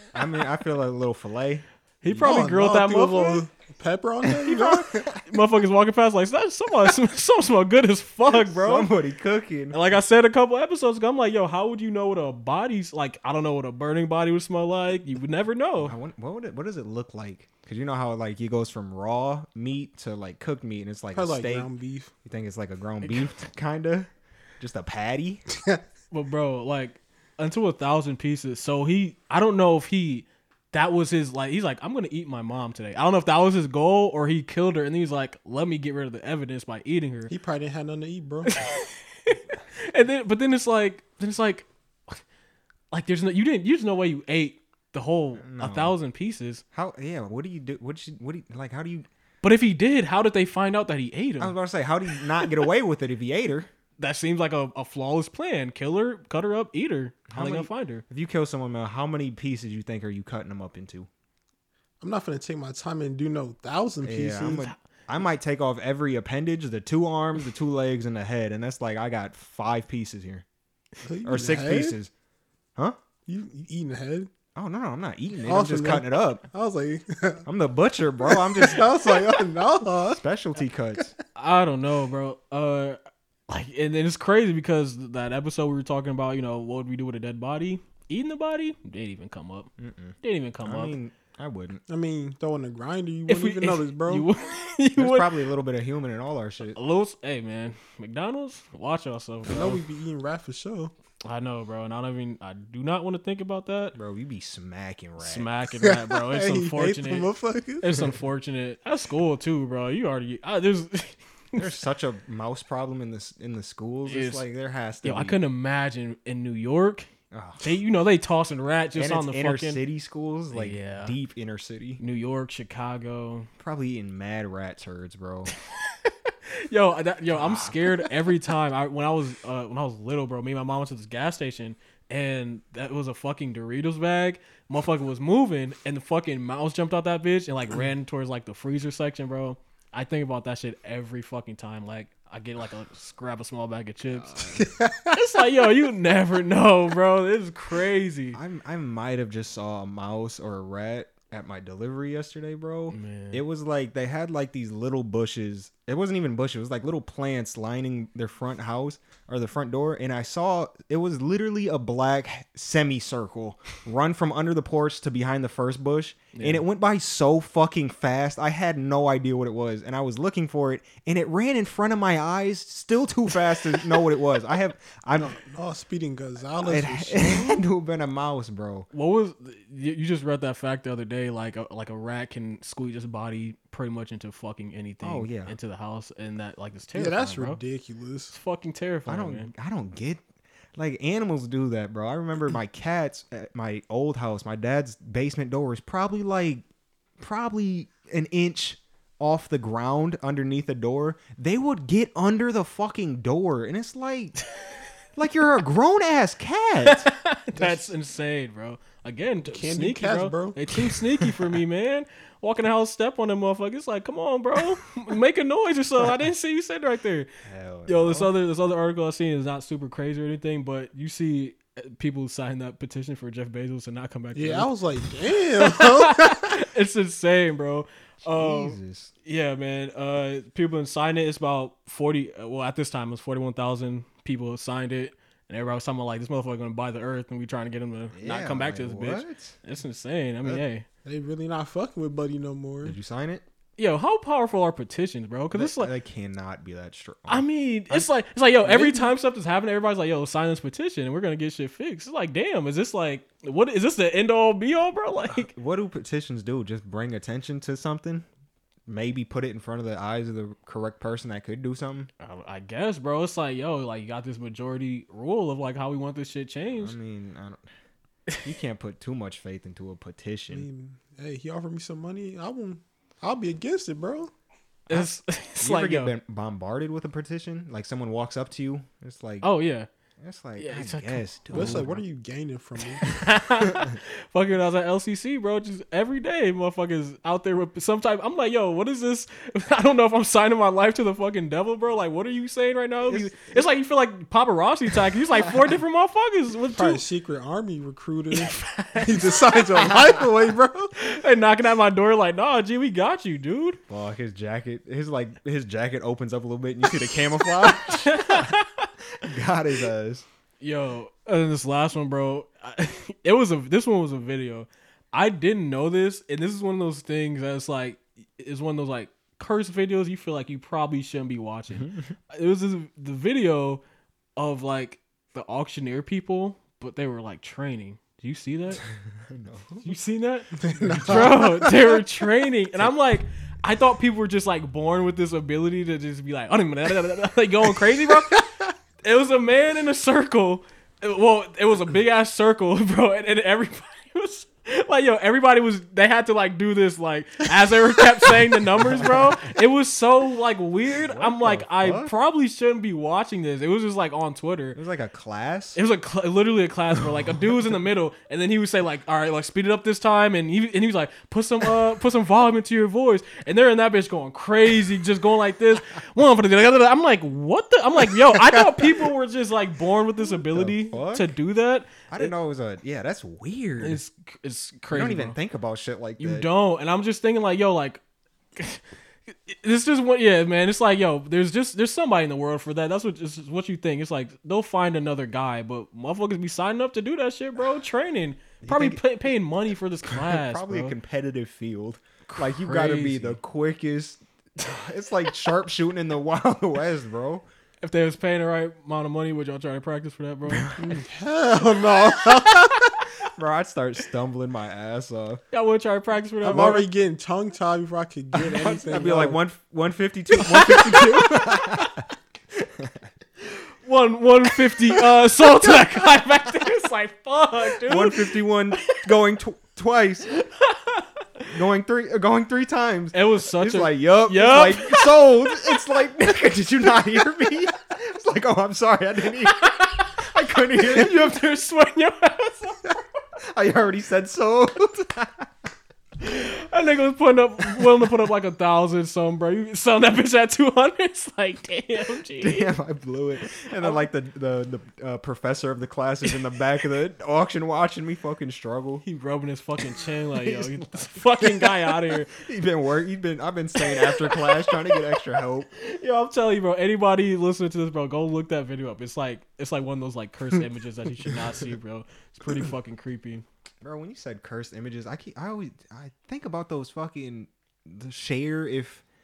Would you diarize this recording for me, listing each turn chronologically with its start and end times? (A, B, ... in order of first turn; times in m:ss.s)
0:00.1-0:02.2 A
0:02.0-0:03.4 B
0:02.2-0:05.0 C
0:04.3-0:05.2 A
0:04.5-0:08.9 B
0:08.3-0:09.8 A
0:09.7-0:16.0 B
0:15.8-0:21.7 A
0:21.1-0:22.1 C
0:22.2-0:24.1 A
0:23.0-0:23.3 B
0:24.6-0:25.4 A
0:26.1-0:37.3 B
0:37.3-0:38.6 C
0:38.5-0:42.2 B
0:42.9-0:46.6 B
0:45.4-0:45.9 A
0:46.7-0:49.1 A
0:49.4-0:51.5 B
0:51.4-0:53.7 A
0:54.0-0:58.0 B
0:57.3-1:01.1 A
1:02.0-1:04.7 C
1:04.0-1:10.4 A
1:11.0-1:12.0 C
1:11.2-1:12.1 A
1:13.3-1:14.3 C
1:14.5-1:16.4 A
1:15.4-1:17.4 C
1:17.4-1:19.0 A
1:18.2-1:20.2 C
1:20.0-1:21.1 A
1:21.3-1:29.7 B
1:29.8-1:31.8 A
1:30.2-1:31.0 B
1:31.9-1:34.3 C
1:33.3-1:35.4 B
1:35.0-1:36.8 A
1:36.7-1:39.8 B
1:39.4-1:40.9 C
1:41.2-1:43.9 B
1:43.9-1:45.5 A
1:45.2-1:47.3 B
1:45.8-1:48.1 C
1:47.8-1:51.8 B
1:51.6-1:55.4 A
1:54.0-1:54.4 B
1:55.0-1:59.8 B
1:57.3-1:57.7 A
1:58.9-2:02.0 A
2:00.5-2:01.1 B
2:02.0-2:03.5 B
2:03.6-2:05.5 A
2:05.8-2:28.4 B
2:07.3-2:08.1 A
2:24.1-2:24.7 A
2:24.6-2:25.1 C
2:28.3-2:55.3 A
2:32.9-2:33.4 B
2:46.3-2:46.6 B
2:55.2-2:57.5 C
2:56.6-2:58.9 A
2:58.9-3:07.6 B
3:05.0-3:05.5 A
3:06.9-3:08.3 C
3:08.3-3:09.5 B
3:09.1-3:10.2 A
3:10.8-3:16.6 A
3:17.2-3:24.4 A
3:25.2-3:27.1 A
3:26.8-3:37.3 B
3:27.5-3:27.9 C
3:29.4-3:30.6 C
3:37.4-3:38.3 A
3:37.9-3:44.7 B
3:44.3-3:46.6 C
3:45.6-4:00.8 B
3:48.3-3:49.1 A
3:58.1-3:59.6 A
4:01.0-4:03.0 C
4:02.8-4:03.4 A
4:03.8-4:05.9 B
4:05.5-4:08.1 A
4:07.3-4:15.5 B
4:08.6-4:09.1 A
4:15.3-4:18.2 A
4:18.9-4:22.1 A
4:22.2-4:26.9 B
4:26.8-4:27.6 A
4:28.4-4:30.6 A
4:30.5-4:34.3 C
4:34.9-4:36.1 B
4:35.6-4:39.5 A
4:39.4-4:39.9 B
4:40.2-4:42.0 A
4:40.6-4:41.8 B
4:41.5-4:43.0 C
4:43.0-4:57.0 B
4:53.1-4:53.4 A
4:56.7-5:00.9 C
4:58.3-5:00.1 B
5:01.0-5:03.8 B
5:03.9-5:08.5 A
5:07.7-5:08.9 B
5:09.2-5:10.2 A
5:10.6-5:23.8 B
5:21.7-5:22.1 A
5:24.4-5:28.8 B
5:29.2-5:29.9 A
5:29.8-5:38.5 B
5:30.6-5:31.8 C
5:30.8-5:31.3 A
5:39.0-5:54.8 B
5:50.9-5:52.1 A
5:54.7-5:55.8 A
5:55.7-6:12.3 B
6:10.3-6:11.3 A
6:12.1-6:14.0 A
6:13.8-6:15.4 B
6:14.9-6:16.5 A
6:16.2-6:18.0 B
6:18.6-6:30.9 B
6:28.6-6:29.0 A
6:30.1-6:37.4 A
6:32.3-6:33.4 B
6:37.8-6:40.7 B
6:40.5-6:41.0 A
6:40.8-6:42.9 C
6:43.2-6:45.4 A
6:45.5-6:46.8 B
6:46.4-6:49.4 C
6:46.5-6:46.8 A
6:48.3-6:52.0 A
6:50.4-6:51.9 B
6:52.6-6:53.0 A
6:53.5-6:58.3 B
6:57.8-7:00.3 A
7:00.3-7:01.4 B
7:01.5-7:11.4 A
7:03.1-7:05.8 B
7:09.5-7:13.0 B
7:13.4-7:15.5 A
7:16.2-7:22.7 B
7:22.4-7:29.0 A
7:23.8-7:24.0 B
7:29.0-7:32.3 B
7:30.4-7:35.7 A
7:33.8-7:35.2 B
7:35.7-7:43.4 B
7:43.8-7:49.0 A